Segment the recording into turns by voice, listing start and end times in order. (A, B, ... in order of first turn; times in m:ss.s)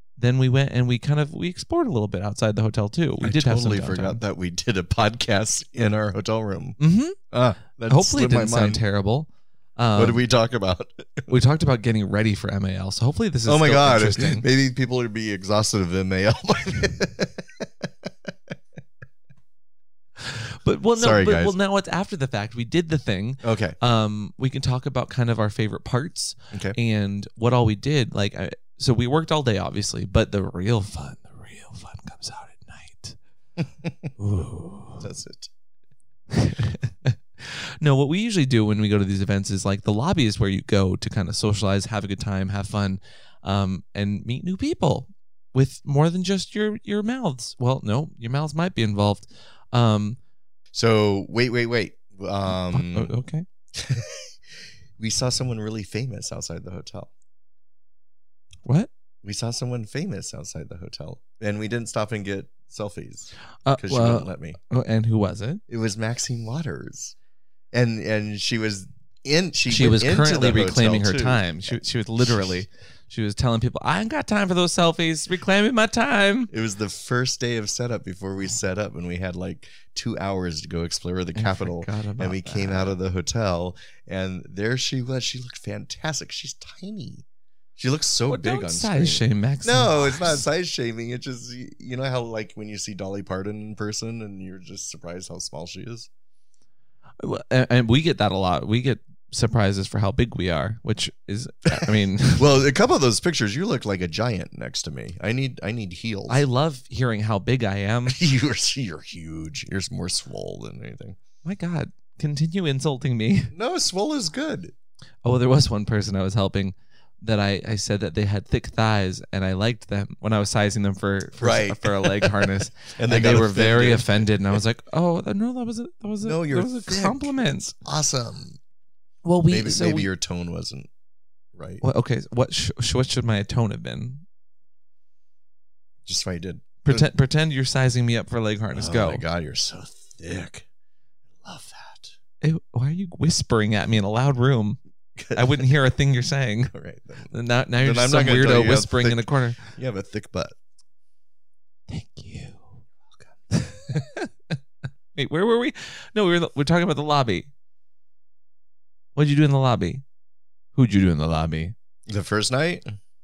0:00.2-0:04.2 A
0:03.2-0:06.8 B
0:06.8-0:07.2 A
0:07.3-0:08.8 B
0:07.9-0:10.2 A
0:10.0-0:11.3 B
0:11.3-0:14.5 A
0:13.5-0:18.3 B
0:20.2-0:33.2 A
0:21.0-0:21.6 B
0:23.4-0:23.8 B
0:26.5-0:26.8 B
0:33.6-0:34.1 B
0:34.2-0:35.0 A
0:35.0-0:35.5 B
0:36.3-0:50.2 A
0:50.7-0:53.1 B
0:52.5-0:53.5 A
0:53.7-0:54.4 B
0:55.0-0:57.1 B
0:59.2-1:04.6 B
1:03.6-1:05.6 A
1:05.7-1:07.2 B
1:07.7-1:12.5 B
1:09.7-1:16.5 A
1:16.5-1:27.2 B
1:21.4-1:23.0 A
1:27.8-1:36.1 B
1:28.3-1:30.4 A
1:37.2-1:42.5 A
1:41.8-1:46.4 B
1:46.3-1:48.2 A
1:48.1-1:51.2 B
1:51.4-1:53.5 A
1:53.5-1:54.7 B
1:55.2-2:07.7 A
2:01.4-2:04.6 B
2:06.2-2:08.6 B
2:09.2-2:10.1 A
2:09.5-2:10.9 B
2:11.5-2:11.8 B
2:11.8-2:14.2 A
2:16.0-2:17.1 B
2:16.8-2:19.2 A
2:18.7-2:20.7 B
2:21.4-2:22.1 B
2:22.4-2:24.8 A
2:25.2-2:25.8 B
2:25.3-2:26.7 A
2:26.7-2:30.5 B
2:27.3-2:29.6 A
2:31.9-2:32.8 A
2:33.5-2:34.6 A
2:35.2-2:37.5 A
2:39.2-2:40.0 A
2:40.8-2:41.7 A
2:42.1-2:43.0 B